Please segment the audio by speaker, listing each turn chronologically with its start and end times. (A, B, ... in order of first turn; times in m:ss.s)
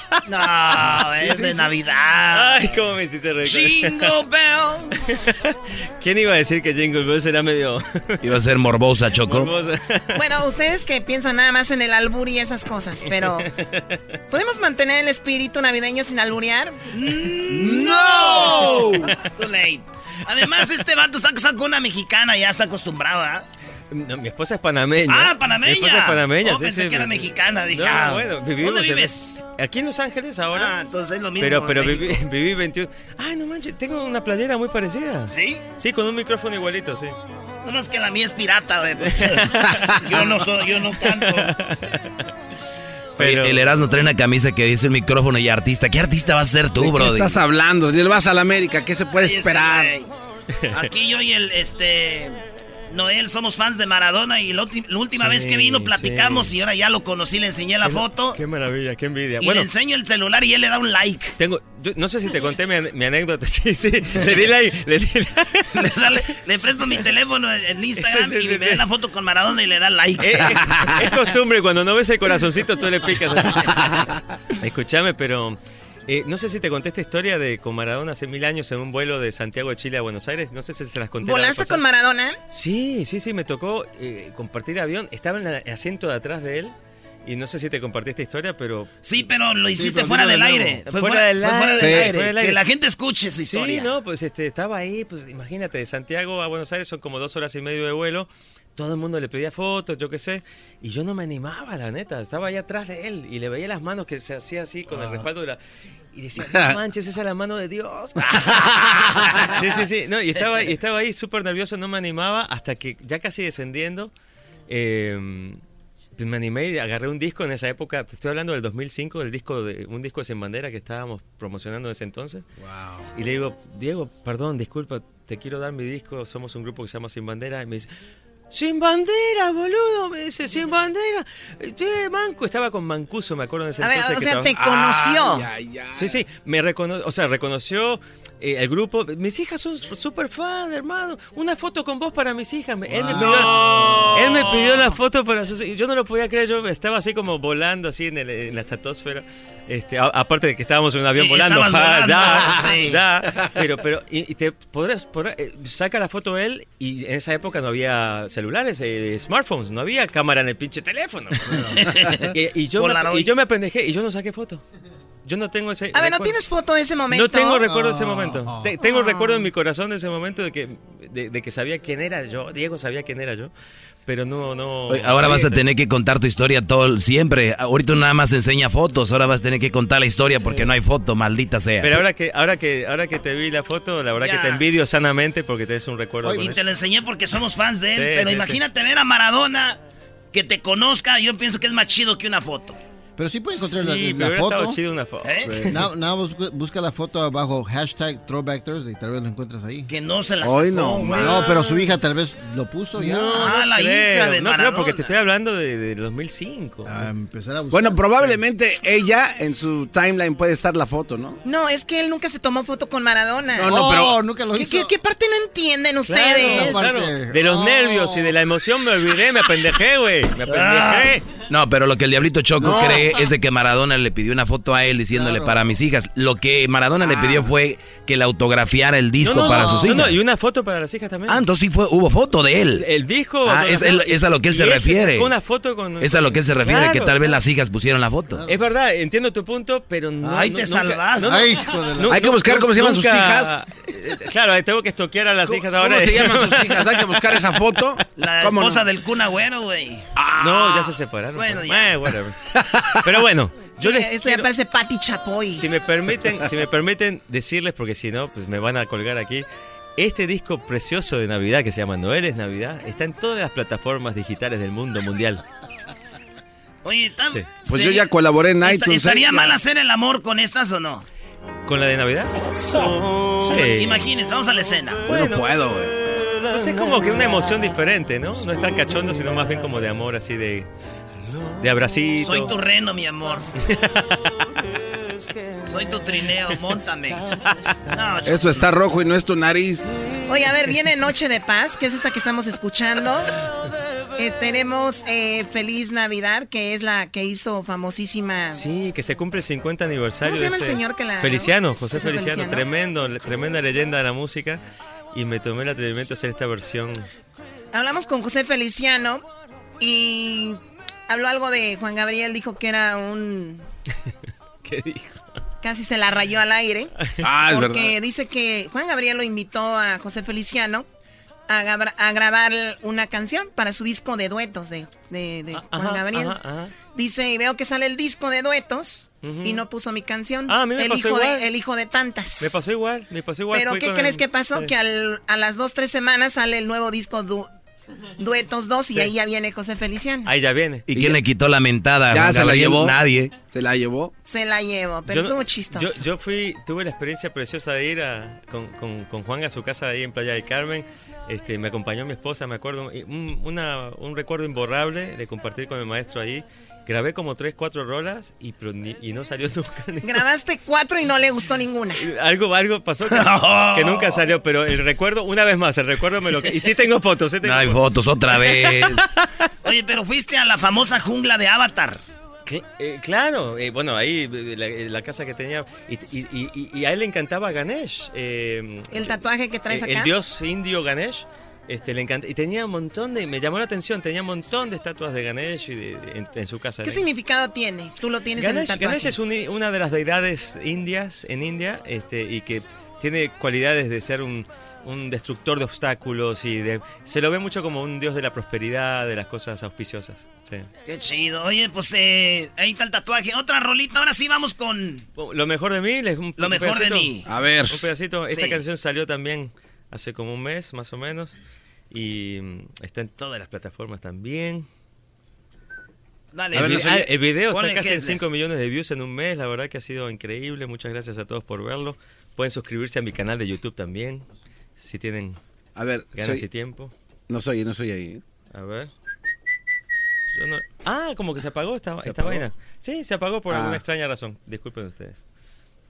0:00.3-0:02.6 A
0:01.1-0:01.7 B
0:02.3-0:04.1 C
0:03.4-0:05.2 A
0:05.1-0:08.2 C
0:08.2-0:09.5 D
0:09.2-0:10.3 C
0:10.2-0:13.5 E
0:13.1-0:14.0 C
0:14.3-0:16.8 E
0:16.9-0:23.5 A
0:17.5-0:19.1 F
0:23.9-0:30.7 C
0:25.1-0:29.4 A
0:30.5-0:32.2 A
0:31.4-0:37.2 C
0:35.3-0:35.6 A
0:37.6-0:41.5 A
0:39.1-0:39.9 C
0:41.1-0:42.1 C
0:43.2-0:47.4 D
0:43.2-0:43.7 C
0:46.8-0:49.9 B
0:49.1-0:50.1 A
0:50.7-0:52.4 A
0:52.9-0:58.4 A
0:55.2-0:56.5 C
0:57.8-0:59.7 C
0:59.4-1:01.4 A
1:01.4-1:05.7 C
1:05.7-1:10.6 A
1:08.0-1:08.8 C
1:10.2-1:14.0 C
1:14.6-1:21.8 C
1:21.2-1:22.4 E
1:22.5-1:26.7 C
1:27.2-1:28.9 C
1:29.0-1:33.9 A
1:29.8-1:30.8 F
1:30.9-1:32.6 C
1:31.8-1:32.1 B
1:33.5-1:45.6 C
1:46.1-1:48.8 C
1:46.4-1:46.8 B
1:49.4-1:54.1 C
1:54.7-1:55.6 C
1:56.2-2:02.5 C
2:02.6-2:03.1 F
2:03.2-2:07.9 C
2:08.5-2:14.5 C
2:13.8-2:15.5 E
2:14.5-2:16.2 B
2:15.9-2:44.6 C
2:23.0-2:24.7 B
2:31.2-2:33.0 A
2:41.8-2:43.3 A
2:45.2-2:46.4 C
2:45.9-2:47.7 E
2:47.1-2:53.5 C
2:47.6-2:48.8 F
2:48.8-2:49.4 E
2:54.1-2:55.6 C
2:54.9-3:02.0 D
3:00.4-3:00.7 C
3:01.8-3:06.6 C
3:04.2-3:04.9 A
3:06.2-3:06.6 F
3:06.3-3:09.8 A
3:08.0-3:08.6 C
3:10.3-3:12.8 A
3:13.2-3:14.8 F
3:13.5-3:15.6 C
3:15.2-3:15.5 A
3:15.5-3:15.7 B
3:15.7-3:19.9 F
3:19.9-3:21.8 A
3:20.4-3:21.4 B
3:21.2-3:23.5 F
3:23.0-3:27.1 C
3:23.3-3:25.1 A
3:26.8-3:28.4 F
3:27.7-3:31.4 B
3:31.4-3:33.8 E
3:33.6-3:34.2 B
3:33.6-3:34.9 F
3:34.5-3:37.1 E
3:36.1-3:41.3 C
3:36.2-3:38.3 F
3:40.5-3:41.2 A
3:41.5-3:50.2 D
3:42.6-3:43.3 F
3:45.1-3:45.7 F
3:47.0-3:47.5 F
3:49.2-3:51.4 C
3:49.4-3:49.9 F
3:51.3-3:52.9 D
3:52.8-3:57.2 C
3:53.4-3:55.3 D
3:56.0-3:58.4 D
3:58.3-3:58.6 F
3:58.5-4:07.4 C
4:00.2-4:01.6 A
4:01.2-4:02.3 F
4:02.0-4:03.6 B
4:05.4-4:08.8 B
4:08.2-4:12.0 A
4:10.2-4:10.5 B
4:10.4-4:12.4 C
4:12.6-4:13.0 B
4:13.0-4:14.5 C
4:13.8-4:15.7 E
4:15.6-4:19.5 C
4:20.0-4:25.4 C
4:26.8-4:28.1 A
4:27.7-4:29.6 B
4:28.6-4:31.1 A
4:31.7-4:34.0 C
4:33.4-4:35.0 A
4:35.1-4:35.9 B
4:35.1-4:35.4 C
4:36.4-4:40.7 C
4:41.5-4:42.5 C
4:42.2-4:43.5 A
4:43.6-4:44.3 C
4:45.6-4:47.2 A
4:47.9-4:48.7 A
4:48.2-4:49.9 B
4:50.3-4:53.3 E
4:54.2-4:58.6 E
4:58.5-5:04.6 C
5:00.2-5:02.7 E
5:05.1-5:07.1 C
5:07.7-5:09.2 E
5:09.8-5:13.7 E
5:14.6-5:15.4 C
5:15.6-5:16.9 E
5:17.2-5:18.0 B
5:17.4-5:20.9 E
5:21.5-5:32.6 E
5:25.5-5:26.8 C
5:29.2-5:29.6 C
5:30.5-5:31.5 C
5:32.4-5:34.7 C
5:33.5-5:37.5 E
5:38.2-5:40.3 E
5:40.3-5:40.9 C
5:40.9-5:43.4 D
5:42.1-5:44.1 B
5:44.2-5:46.0 E
5:45.1-6:00.2 C
6:00.0-6:02.0 E
6:02.0-6:09.3 C
6:03.1-6:04.2 A
6:07.4-6:09.1 D
6:09.6-6:12.0 A
6:12.5-6:27.0 C
6:18.9-6:20.1 E
6:26.8-6:29.2 E
6:28.4-6:40.7 C
6:40.9-6:45.1 A
6:45.2-6:47.1 C
6:46.4-6:47.3 A
6:47.3-6:47.8 B
6:47.7-6:51.4 C
6:48.3-6:48.6 A
6:51.9-6:54.7 C
6:56.3-6:58.2 A
6:56.5-6:57.0 B
6:56.6-7:04.2 C
7:04.8-7:05.4 C
7:05.8-7:06.4 B
7:06.2-7:06.9 C
7:07.3-7:08.2 B
7:08.5-7:08.9 C
7:10.3-7:15.2 C
7:12.0-7:12.4 B
7:13.5-7:13.8 B